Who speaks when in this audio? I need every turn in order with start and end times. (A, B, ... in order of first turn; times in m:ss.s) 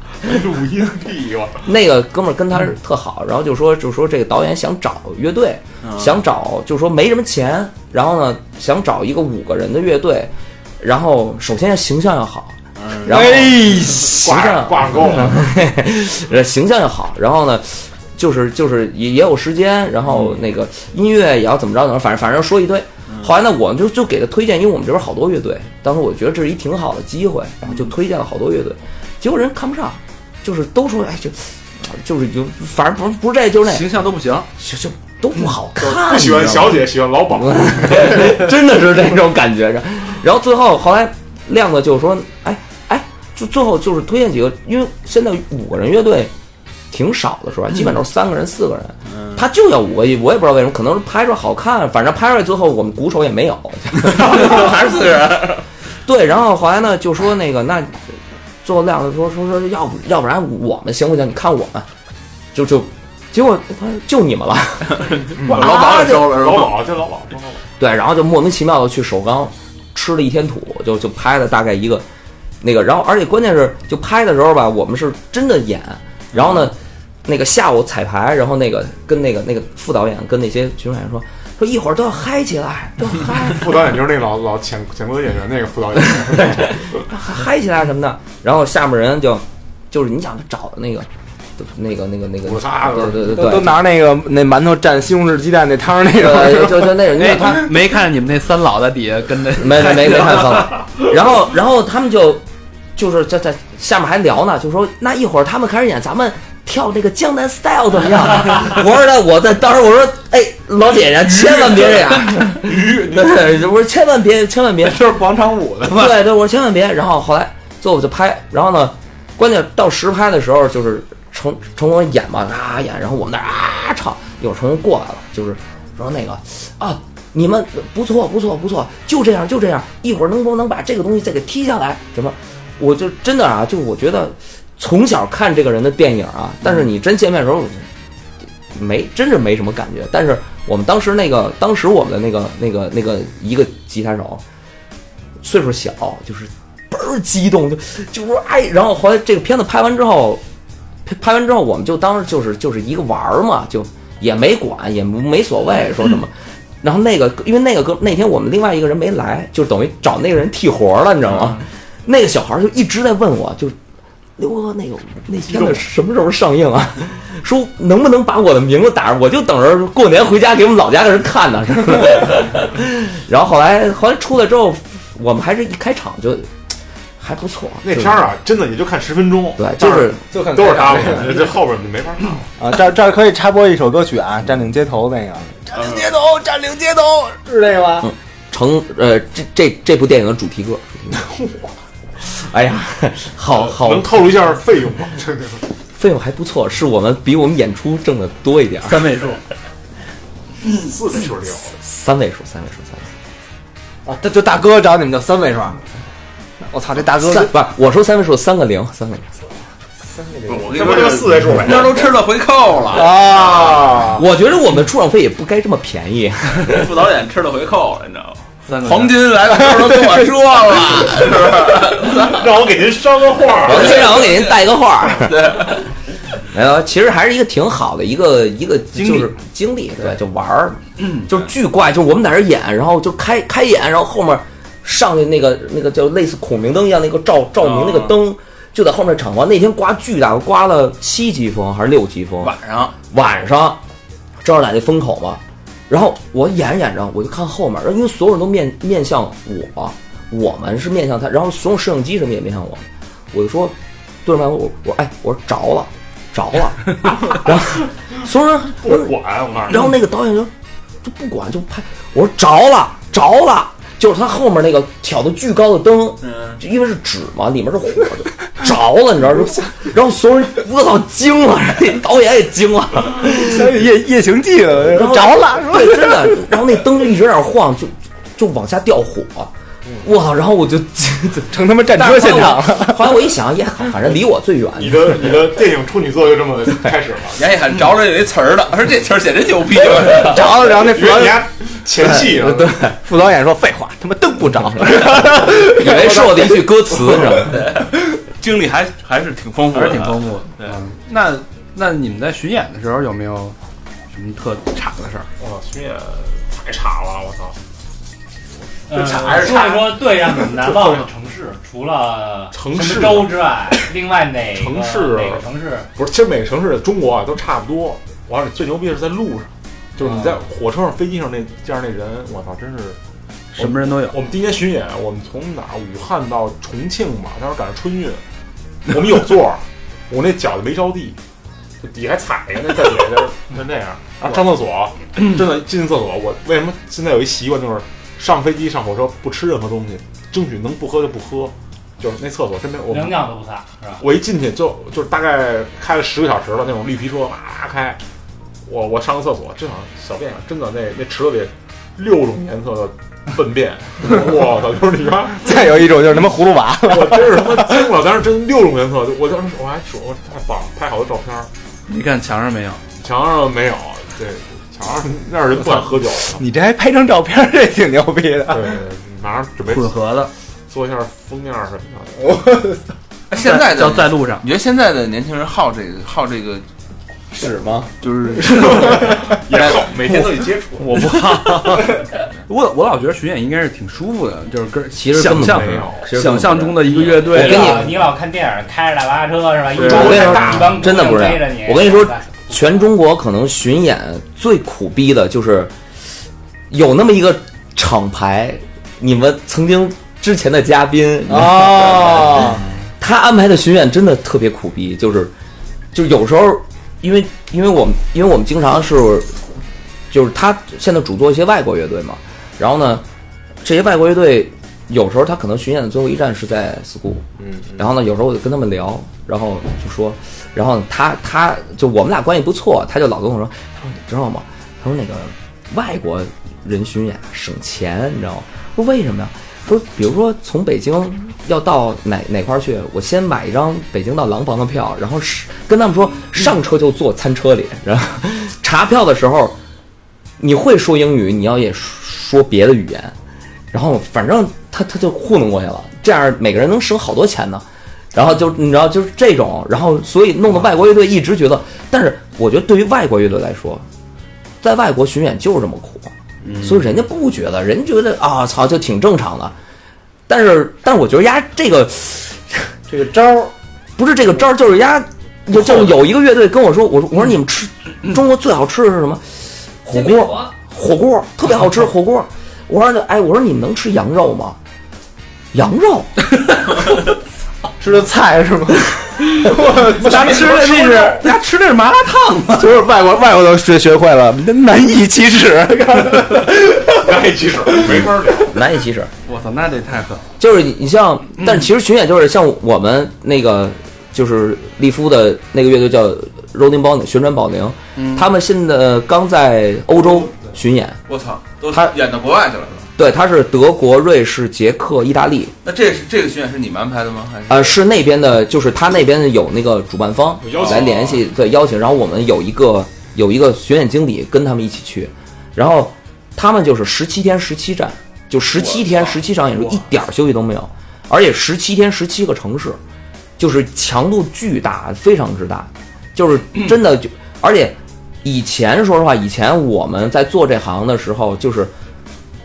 0:00.2-0:01.7 A
0:01.6-0:33.8 B
0:05.8-0:06.1 C
0:12.8-0:13.4 C
0:13.0-0:14.2 D
0:14.0-0:15.4 A
0:33.6-0:34.5 E
0:34.6-0:46.3 B
0:35.8-0:38.4 A
0:46.9-0:55.1 B
0:54.0-0:55.6 C
0:56.0-1:01.9 B
1:02.5-1:06.4 B
1:05.0-1:06.9 C
1:05.4-1:07.6 A
1:07.8-1:12.0 B
1:12.6-1:23.7 B
1:23.4-1:27.0 A
1:26.2-1:31.1 B
1:31.6-1:33.7 B
1:32.4-1:33.4 A
1:33.3-1:37.0 D
1:36.2-1:37.7 B
1:37.1-1:40.7 E
1:39.6-1:42.4 B
1:43.0-1:55.0 B
1:52.5-1:53.5 A
1:55.1-1:56.1 E
1:55.8-2:17.9 B
2:18.7-2:24.4 B
2:25.4-2:30.4 B
2:31.0-2:43.8 B
2:44.4-2:56.5 B
2:45.5-2:45.8 A
2:57.2-2:58.2 B
2:57.8-3:02.5 A
2:59.6-3:00.2 B
3:00.3-3:01.5 D
3:02.6-3:08.1 D
3:05.7-3:06.1 C
3:08.0-3:11.2 B
3:11.1-3:11.7 A
3:12.2-3:14.3 B
3:13.6-3:15.6 A
3:16.0-3:19.1 B
3:18.8-3:19.4 E
3:20.6-3:21.7 A
3:21.8-3:23.1 B
3:24.0-3:25.8 D
3:26.7-3:27.5 D
3:27.2-3:29.2 B
3:30.2-3:30.7 D
3:30.5-3:33.7 C
3:30.6-3:32.1 A
3:32.9-3:34.2 D
3:33.4-3:34.1 A
3:34.2-3:36.9 B
3:36.6-3:42.5 C
3:38.7-3:39.2 E
3:39.5-3:40.3 D
3:42.2-3:44.3 A
3:43.6-3:45.7 B
3:43.6-3:44.6 C
3:45.2-3:45.8 C
3:46.5-4:02.6 B
3:49.0-3:49.3 E
3:57.7-3:58.1 C
4:02.4-4:02.9 C
4:03.1-4:03.8 B
4:04.4-4:19.2 B
4:18.8-4:19.9 A
4:19.7-4:20.5 B
4:21.0-4:33.8 B
4:26.2-4:26.6 C
4:33.2-4:36.4 D
4:34.9-4:45.4 B
4:41.5-4:43.0 D
4:44.8-4:47.4 A
4:47.4-4:50.4 C
4:50.1-4:51.4 D
4:50.9-4:52.8 A
4:52.3-4:56.6 D
4:52.4-4:52.9 B
4:55.0-4:57.6 B
4:57.4-5:00.8 C
4:59.7-5:03.6 E
5:04.1-5:05.3 E
5:05.4-5:07.6 A
5:08.9-5:15.9 F
5:08.9-5:09.8 C
5:09.2-5:10.0 A
5:10.6-5:11.0 A
5:12.5-5:13.4 A
5:14.6-5:15.4 A
5:15.9-5:23.0 A
5:23.5-5:24.2 E
5:23.6-5:28.2 A
5:28.9-5:31.2 A
5:31.8-5:43.3 A
5:42.9-5:44.0 F
5:44.0-5:48.0 A
5:48.6-5:55.7 A
5:55.4-5:57.8 D
5:56.9-6:01.5 A
6:01.9-6:02.8 E
6:03.0-6:06.4 A
6:05.7-6:08.8 D
6:08.5-6:10.0 A
6:09.6-6:10.3 E
6:10.7-6:12.2 A
6:12.2-6:12.8 D
6:13.3-6:16.6 C
6:13.4-6:14.4 E
6:17.3-6:17.9 B
6:18.0-6:19.9 C
6:18.5-6:21.0 A
6:20.8-6:27.8 E
6:24.9-6:28.0 B
6:25.3-6:26.1 A
6:27.1-6:32.7 F
6:29.7-6:31.0 A
6:29.8-6:35.7 B
6:36.7-6:45.3 B
6:41.3-6:42.6 D
6:45.9-6:49.4 B
6:50.1-6:53.0 B
6:53.6-7:19.6 B
7:20.4-7:23.1 B
7:23.7-7:33.8 B
7:34.6-7:39.5 B
7:40.3-7:42.7 B
7:42.9-7:43.5 D
7:44.0-7:49.2 B
7:49.8-7:54.6 B
7:49.9-7:50.5 F
7:55.5-7:56.1 B
7:57.8-8:00.5 D
7:59.7-8:02.7 E
8:00.0-8:01.2 A
8:02.5-8:06.9 D
8:07.0-8:08.6 A
8:08.5-8:09.1 B
8:09.2-8:10.3 E
8:10.4-8:21.0 B
8:21.1-8:22.9 C
8:23.0-8:25.5 B
8:25.6-8:27.8 C
8:27.5-8:42.8 B
8:30.4-8:31.2 A
8:30.5-8:31.2 C
8:38.6-8:39.2 C
8:43.4-8:51.7 B